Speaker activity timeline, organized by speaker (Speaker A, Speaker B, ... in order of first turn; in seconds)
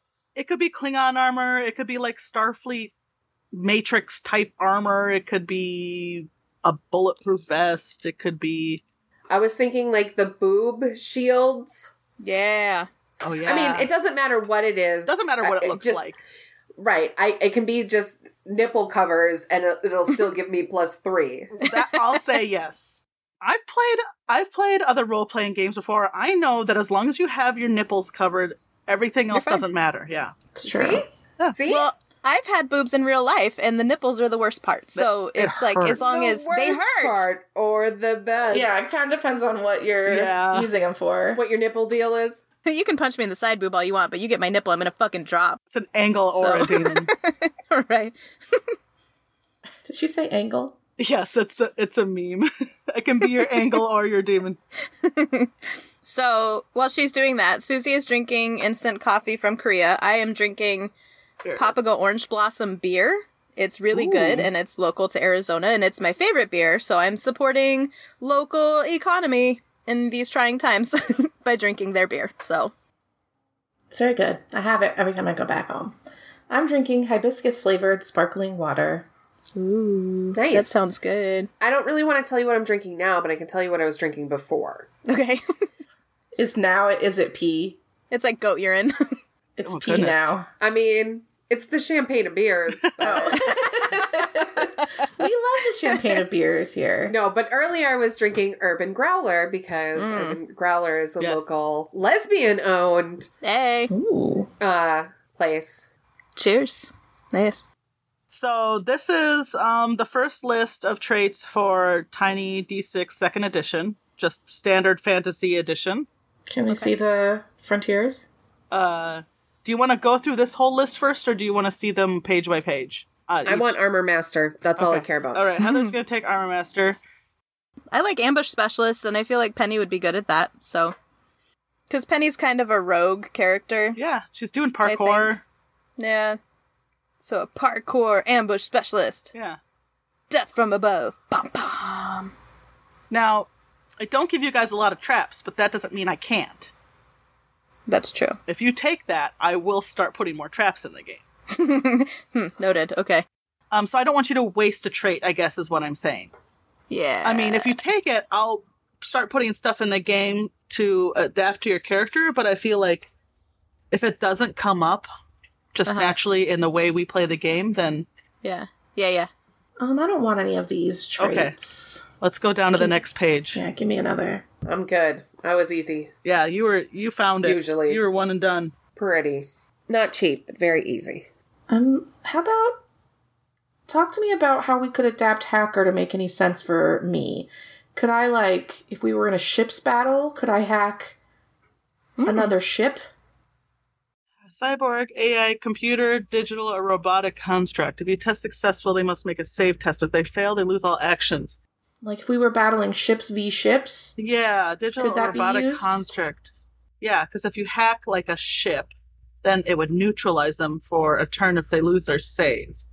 Speaker A: 0.4-2.9, 3.5-8.8, 13.2-13.9, 15.1-16.2, 21.5-30.3, 35.0-36.3, 40.1-40.7, 45.7-47.1, 51.0-54.6, 61.4-61.8, 63.9-64.5, 89.7-90.3, 101.2-101.5, 108.3-116.1, 118.7-123.8, 124.8-127.0, 134.0-135.4, 143.1-143.5, 144.0-146.7, 148.5-151.2, 153.7-156.3, 157.2-163.1, 163.9-165.1, 165.7-168.1, 171.2-171.6, 172.2-173.6, 176.2-178.7, 194.4-201.6, 204.2-212.8
Speaker B: 9.3-11.9, 13.4-16.1, 16.8-21.5, 30.6-31.9, 36.0-38.7, 41.4-42.4, 80.3-80.8, 81.6-84.9, 90.6-94.7, 97.1-103.3, 104.6-105.9, 123.5-125.5, 174.7-176.1, 177.4-178.0, 179.0-181.3
Speaker C: 12.2-12.9, 21.7-22.0, 29.3-29.6, 31.7-37.2, 42.7-45.6, 46.3-48.8, 53.4-53.6, 55.0-55.5, 56.0-60.9, 61.6-72.7, 79.6-81.5, 85.1-85.4, 88.1-89.2, 93.3-93.6, 94.8-95.1, 100.0-100.4, 103.4-103.9, 106.4-107.7, 116.7-116.9, 125.6-125.9, 127.9-130.9, 131.9-134.0, 134.8-135.4, 136.0-136.4, 137.2-139.3, 140.3-142.3, 147.9-148.4, 151.5-153.2, 156.9-157.8, 165.9-166.2, 168.4-169.3, 192.2-192.5
Speaker D: 30.6-31.1, 38.5-41.4, 49.9-50.8, 73.9-76.0, 76.5-79.1, 86.4-87.8, 89.6-90.5, 93.0-97.2, 103.9-104.5, 116.5-118.3, 169.8-172.0, 173.6-174.4, 181.7-182.8, 183.9-191.2, 192.2-193.0, 202.0-204.2, 205.0-206.0